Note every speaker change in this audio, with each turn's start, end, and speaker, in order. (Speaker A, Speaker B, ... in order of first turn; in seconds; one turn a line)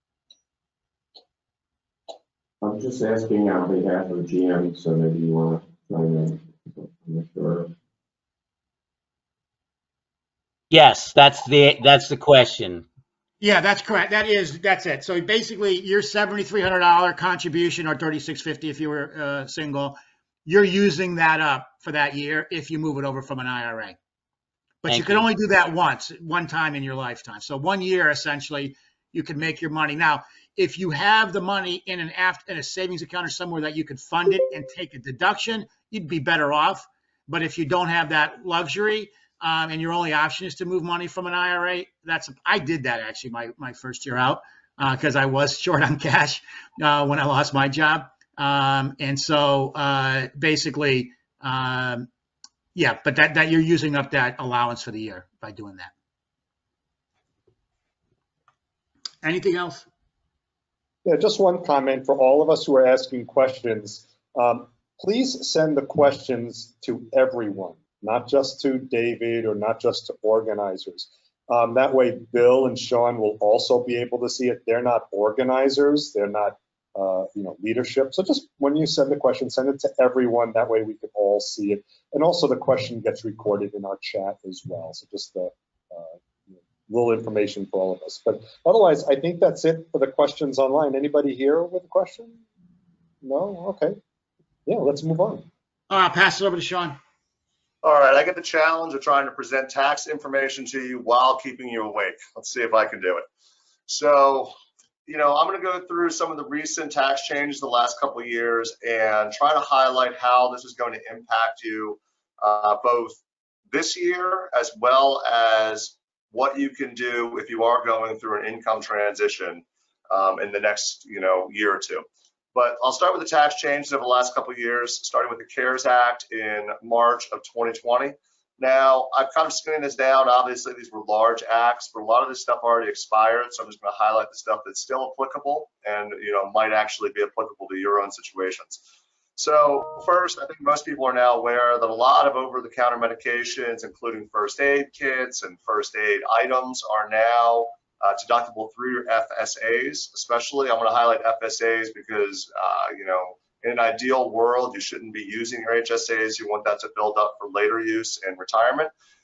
Speaker A: 2.6-7.7
Speaker B: 10.7-12.8
Speaker C: 13.4-24.0
Speaker C: 24.8-52.1
Speaker B: 24.9-25.2
Speaker C: 52.7-55.9
Speaker C: 59.2-59.9
Speaker D: 61.0-92.4
Speaker D: 93.2-94.0
Speaker D: 94.7-95.5
Speaker C: 95.9-97.0
Speaker E: 97.8-103.2
Speaker E: 103.9-104.5
Speaker E: 105.0-113.2
Speaker E: 113.7-138.8
Speaker E: 139.4-158.9